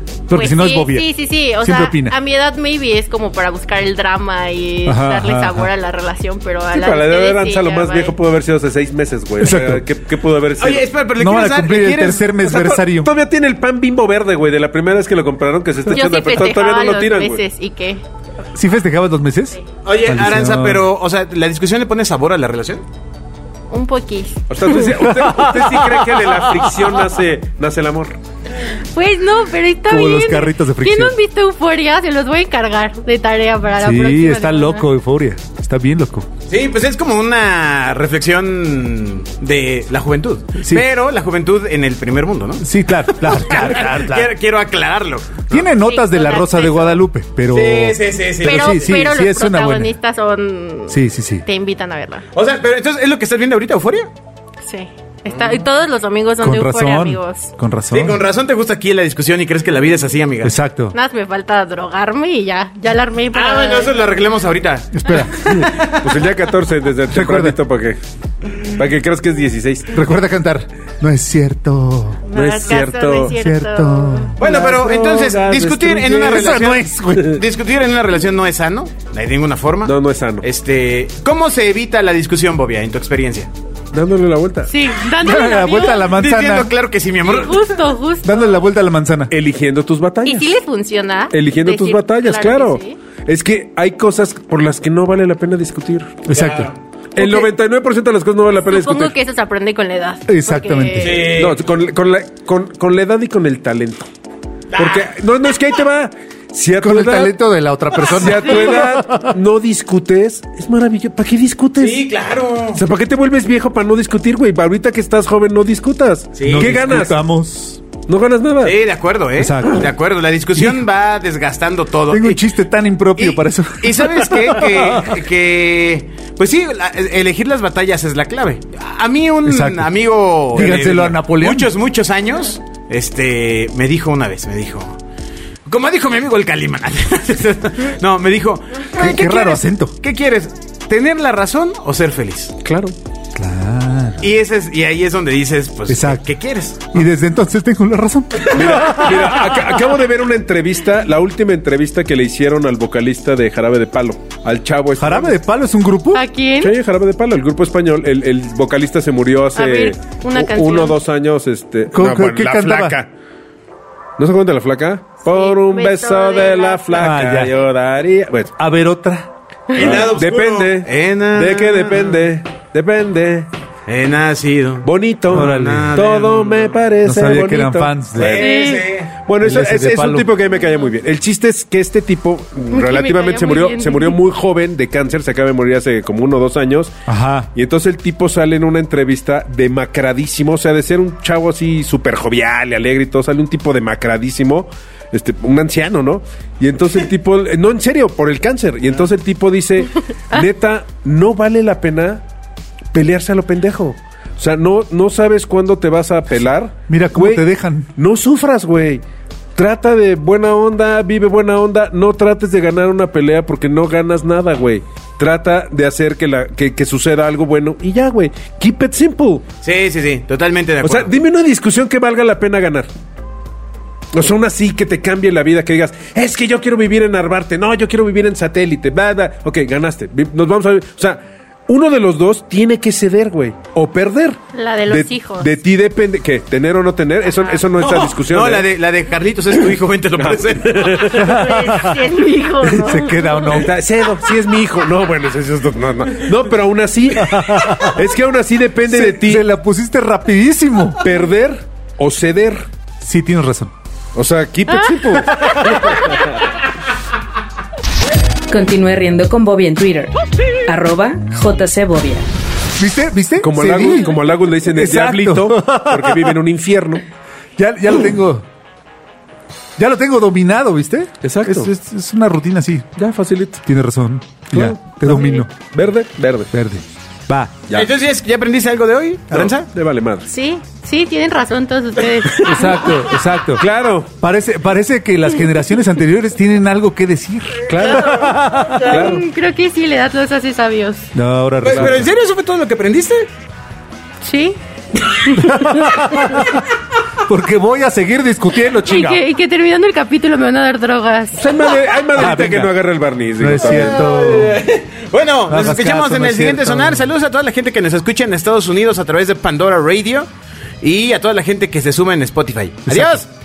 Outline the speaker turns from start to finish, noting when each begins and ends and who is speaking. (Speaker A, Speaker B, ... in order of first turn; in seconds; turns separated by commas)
Speaker A: 0.3-2.1, Speaker B: 0.3-8.2, Speaker A: 4.8-5.7, Speaker C: 6.7-10.9, Speaker A: 9.4-9.8, Speaker D: 10.6-12.3, Speaker A: 11.2-13.1, Speaker C: 12.4-17.4, Speaker B: 15.8-18.0, Speaker A: 18.5-20.9, Speaker D: 19.8-22.8, Speaker B: 23.7-24.9, Speaker C: 24.5-28.2, Speaker A: 25.2-26.0, Speaker B: 28.9-34.9, Speaker A: 29.9-31.1, Speaker A: 33.8-36.3, Speaker D: 36.5-45.7, Speaker A: 40.6-40.8, Speaker A: 42.6-44.3, Speaker A: 45.5-49.9, Speaker B: 45.8-47.0, Speaker D: 47.5-49.0, Speaker B: 48.4-52.2, Speaker A: 50.9-51.4, Speaker D: 52.3-54.1, Speaker B: 54.6-57.5, Speaker D: 55.3-55.5, Speaker A: 56.4-58.2, Speaker D: 57.9-60.5, Speaker A: 60.4-60.9, Speaker B: 60.9-64.0, Speaker D: 63.3-66.2, Speaker A: 64.9-65.7, Speaker C: 65.6-68.0, Speaker A: 67.1-67.5, Speaker C: 68.6-70.0, Speaker A: 69.9-72.2, Speaker B: 72.3-74.3, Speaker C: 72.3-73.3, Speaker A: 73.3-74.4, Speaker C: 74.4-76.6, Speaker D: 74.4-83.5, Speaker A: 76.2-77.4, Speaker C: 79.8-80.4, Speaker C: 83.9-84.7, Speaker B: 84.7-86.1, Speaker A: 85.2-86.7, Speaker D: 86.0-87.7, Speaker B: 87.2-88.6, Speaker A: 88.2-89.3, Speaker C: 89.3-90.5, Speaker B: 90.2-93.0, Speaker C: 91.3-96.2, Speaker A: 96.2-96.7, Speaker D: 96.3-96.7, Speaker C: 97.2-99.1, Speaker B: 97.2-97.5, Speaker B: 98.6-101.3, Speaker A: 100.3-101.3, Speaker D: 101.0-101.6, Speaker C: 101.3-104.1, Speaker D: 104.7-105.1, Speaker C: 104.8-107.3, Speaker A: 106.8-109.3, Speaker C: 108.0-112.0, Speaker D: 108.1-108.4, Speaker D: 111.8-112.8, Speaker C: 112.8-117.2, Speaker D: 116.3-117.0, Speaker A: 116.5-117.8, Speaker C: 118.1-118.8, Speaker D: 118.6-122.4, Speaker A: 119.4-119.9, Speaker A: 120.5-120.8, Speaker A: 122.1-125.2, Speaker D: 123.2-135.0, Speaker A: 129.4-129.9, Speaker A: 130.5-131.7, Speaker D: 135.7-142.5, Speaker A: 138.9-139.9, Speaker C: 142.6-142.9, Speaker A: 143.3-144.3, Speaker D: 144.2-147.0, Speaker A: 145.9-146.2, Speaker A: 146.9-149.8, Speaker C: 148.5-155.4, Speaker A: 155.0-156.2, Speaker B: 156.1-156.7, Speaker C: 156.6-163.1, Speaker B: 159.5-161.0, Speaker A: 161.9-163.0, Speaker C: 164.2-168.5, Speaker B: 165.2-167.0, Speaker A: 166.9-167.5, Speaker A: 168.6-169.3, Speaker D: 169.7-172.2, Speaker C: 169.7-173.5, Speaker D: 173.9-176.8, Speaker C: 174.8-186.9, Speaker A: 175.3-176.0, Speaker A: 177.0-178.4, Speaker D: 178.2-179.1, Speaker B: 178.3-178.9, Speaker A: 179.4-180.3, Speaker B: 182.7-184.2, Speaker A: 187.1-187.5, Speaker C: 187.5-202.2, Speaker C: 202.9-207.4, Speaker A: 206.9-207.9, Speaker C: 207.9-209.0, Speaker C: 209.5-219.4, Speaker D: 219.6-221.1, Speaker C: 220.8-222.9, Speaker C: 224.1-238.7, Speaker B: 234.5-235.5, Speaker D: 237.8-241.1, Speaker C: 240.2-241.4, Speaker A: 241.1-242.1, Speaker B: 241.2-243.6, Speaker A: 242.7-243.7, Speaker C: 243.5-249.4, Speaker A: 247.2-248.0, Speaker A: 248.9-251.0, Speaker C: 251.0-252.7, Speaker A: 253.0-253.7, Speaker C: 254.1-256.4, Speaker A: 255.3-256.0, Speaker E: 258.5-260.1, Speaker E: 260.6-262.2, Speaker A: 262.8-264.2, Speaker C: 263.4-267.0, Speaker A: 264.7-266.4, Speaker A: 267.6-268.4, Speaker A: 269.8-272.9, Speaker C: 271.2-271.7, Speaker C: 272.9-273.6, Speaker A: 273.6-275.5, Speaker C: 274.5-276.5, Speaker A: 276.5-277.6, Speaker D: 277.7-279.7, Speaker C: 279.3-280.3, Speaker B: 280.3-282.9, Speaker A: 282.3-283.6, Speaker C: 283.6-284.1, Speaker A: 284.2-289.1, Speaker C: 287.7-288.3, Speaker B: 287.8-291.1, Speaker C: 288.8-289.2, Speaker A: 291.1-292.1, Speaker D: 291.6-293.3, Speaker C: 291.7-292.0, Speaker B: 294.2-294.6, Speaker B: 295.1-296.3, Speaker A: 295.3-296.5, Speaker A: 297.2-299.2, Speaker B: 298.8-301.4, Speaker C: 301.4-304.1, Speaker A: 302.1-302.8, Speaker A: 303.4-304.6, Speaker D: 303.6-310.3, Speaker A: 305.5-307.1, Speaker D: 310.8-313.3, Speaker A: 312.9-313.2